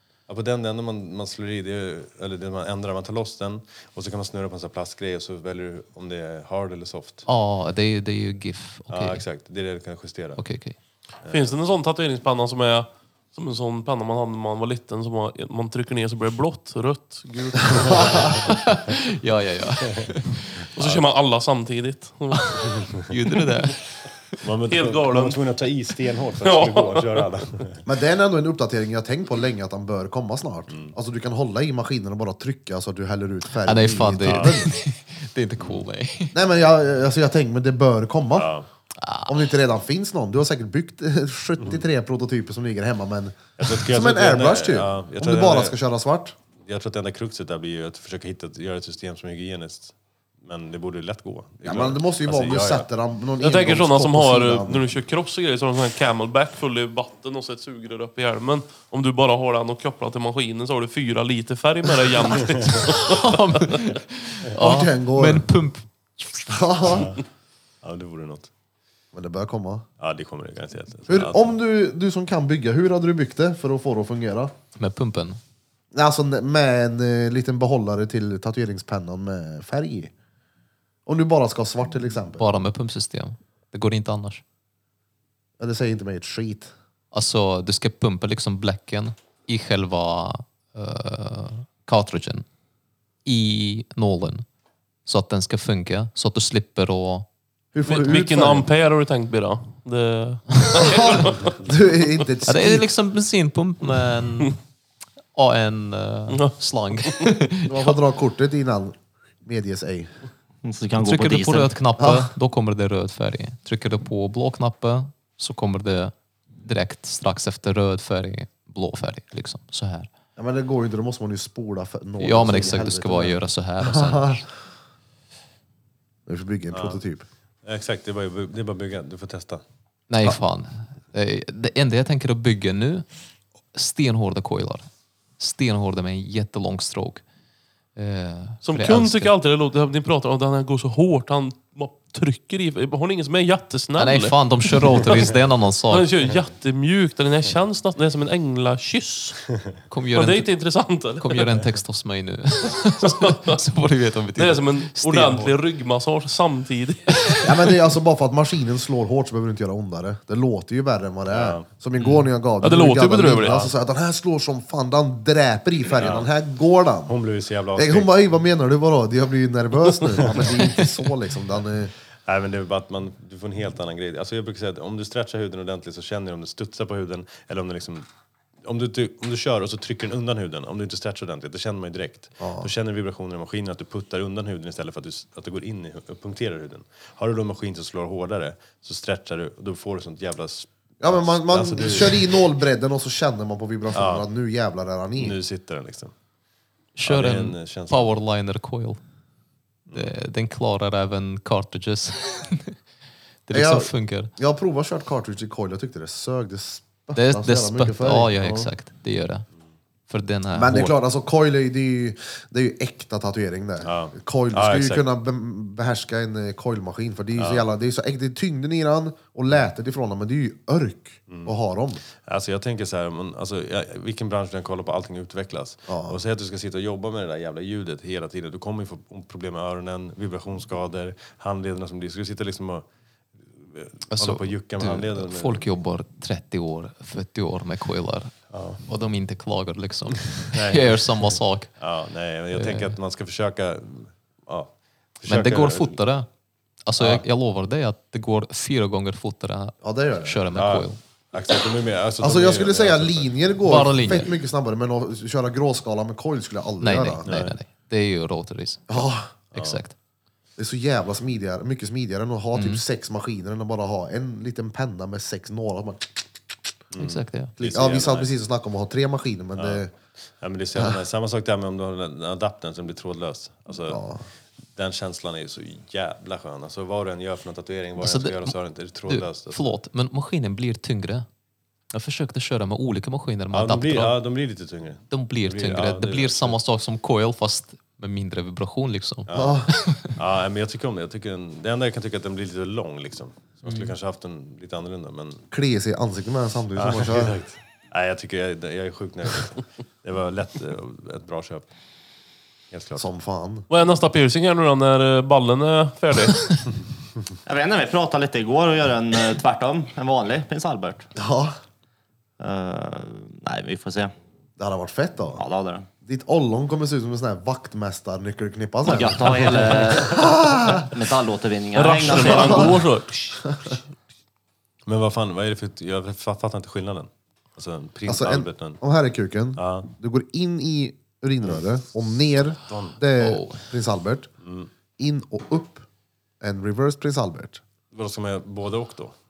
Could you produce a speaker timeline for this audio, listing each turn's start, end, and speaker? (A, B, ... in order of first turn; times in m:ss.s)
0:00.3-0:07.2 A
0:07.3-0:09.2 B
0:08.9-0:10.4 A
0:10.4-0:10.8 B
0:11.2-0:11.5 A
0:11.3-0:18.4 C
0:17.7-0:18.3 D
0:18.3-0:20.6 B
0:19.8-0:20.1 A
0:20.8-0:22.7 C
0:20.8-0:21.1 A
0:22.3-0:23.8 B
0:24.4-0:27.8 A
0:24.7-0:25.4 C
0:26.4-0:27.3 C
0:27.9-0:34.7 D
0:30.7-0:31.0 A
0:33.6-0:36.4 B
0:34.2-0:34.6 A
0:35.6-0:35.8 A
0:36.3-0:38.5 D
0:38.3-0:38.7 A
0:39.0-0:39.4 B
0:39.3-0:46.4 D
0:43.6-0:45.8 A
0:46.6-0:52.9 A
0:51.6-0:54.9 D
0:53.4-1:03.8 C
1:02.4-1:02.7 A
1:02.8-1:06.5 B
1:04.6-1:05.5 D
1:06.5-1:07.1 D
1:06.9-1:07.2 A
1:07.8-1:08.5 A
1:09.1-1:09.9 D
1:10.0-1:11.5 A
1:11.1-1:14.5 D
1:14.8-1:15.4 B
1:15.9-1:20.1 D
1:21.1-1:22.6 D
1:22.4-1:24.4 B
1:25.6-1:26.7 D
1:27.1-1:32.4 B
1:33.2-1:34.4 B
1:35.1-1:37.3 B
1:37.7-1:38.7 D
1:37.9-1:41.6 C
1:40.6-1:41.0 B
1:40.8-1:42.9 D
1:42.5-1:44.6 B
1:45.4-1:48.0 B
1:46.3-1:47.3 C
1:47.6-1:50.1 D
1:50.6-1:51.7 E
1:51.0-2:00.1 B
1:52.0-1:52.3 D
2:00.4-2:04.4 D
2:02.2-2:04.5 B
2:06.3-2:07.3 D
2:06.7-2:07.0 A
2:07.6-2:09.6 A
2:10.1-2:13.1 B
2:13.7-2:14.9 B
2:15.4-2:17.2 B
2:18.0-2:19.3 B
2:18.6-2:25.3 C
2:24.0-2:26.1 B
2:25.9-2:29.4 C
2:29.9-2:30.5 B
2:30.1-2:31.7 C
2:31.2-2:35.5 B
2:33.0-2:33.6 C
2:34.4-2:37.5 C
2:37.4-2:47.1 D
2:41.3-2:41.6 A
2:42.6-2:43.6 C
2:43.4-2:43.7 A
2:46.0-2:46.3 A
2:47.1-2:48.2 A
2:47.8-2:51.9 D
2:50.2-2:50.5 A
2:52.3-2:58.1 A
2:58.6-3:12.4 A
3:02.4-3:02.7 D
3:11.0-3:15.4 D
3:13.9-3:14.3 A
3:15.2-3:16.1 A
3:17.0-3:19.0 B
3:17.0-3:18.1 A
3:19.9-3:22.8 B
3:23.5-3:24.3 B
3:23.5-3:28.7 D
3:27.1-3:29.4 B
3:30.1-3:31.0 B
3:30.5-3:42.0 D
3:33.8-3:35.0 A
3:37.4-3:37.7 A
3:41.3-3:41.5 A
3:42.2-3:52.8 A
3:45.9-3:46.2 D
3:53.5-3:55.7 A
3:54.1-3:58.4 B
3:58.5-3:58.8 A
3:58.9-4:01.7 B
4:00.4-4:01.1 A
4:01.8-4:06.0 A
4:02.5-4:03.0 B
4:05.3-4:06.3 B
4:06.8-4:11.0 B
4:07.0-4:07.2 A
4:09.8-4:10.4 D
4:10.5-4:13.3 A
4:12.2-4:17.3 D
4:13.6-4:14.3 B
4:16.8-4:20.0 B
4:17.2-4:17.6 A
4:18.9-4:19.3 D
4:19.6-4:19.8 A
4:20.6-4:26.3 D
4:22.5-4:22.8 B
4:26.9-4:28.3 A
4:27.0-4:27.5 B
4:27.6-4:29.9 D
4:29.6-4:29.8 A
4:30.4-4:34.0 A
4:33.9-4:34.2 D
4:34.8-4:39.7 A
4:38.0-4:38.6 B
4:39.1-4:41.3 B
4:41.9-4:44.2 B
4:43.5-4:46.6 A
4:45.1-4:50.1 B
4:49.3-4:55.4 A
4:49.3-4:49.7 D
4:53.7-4:53.9 B
4:55.5-4:57.4 D
4:56.8-5:01.7 A
5:02.7-5:03.1 A
5:03.0-5:03.7 D
5:03.7-5:06.6 C
5:07.4-5:11.1 E
5:11.2-5:11.5 D
5:12.4-5:14.1 E
5:14.6-5:15.4 D
5:15.4-5:15.9 E
5:16.0-5:20.9 D
5:18.9-5:22.8 E
5:21.7-5:23.5 C
5:22.2-5:22.8 D
5:23.4-5:23.7 D
5:24.9-5:28.8 A
5:28.1-5:34.3 D
5:29.6-5:29.9 A
5:32.7-5:33.0 A
5:33.2-5:33.7 B
5:34.4-5:34.7 A
5:35.0-5:35.9 D
5:36.4-5:37.6 D
5:37.9-5:39.1 A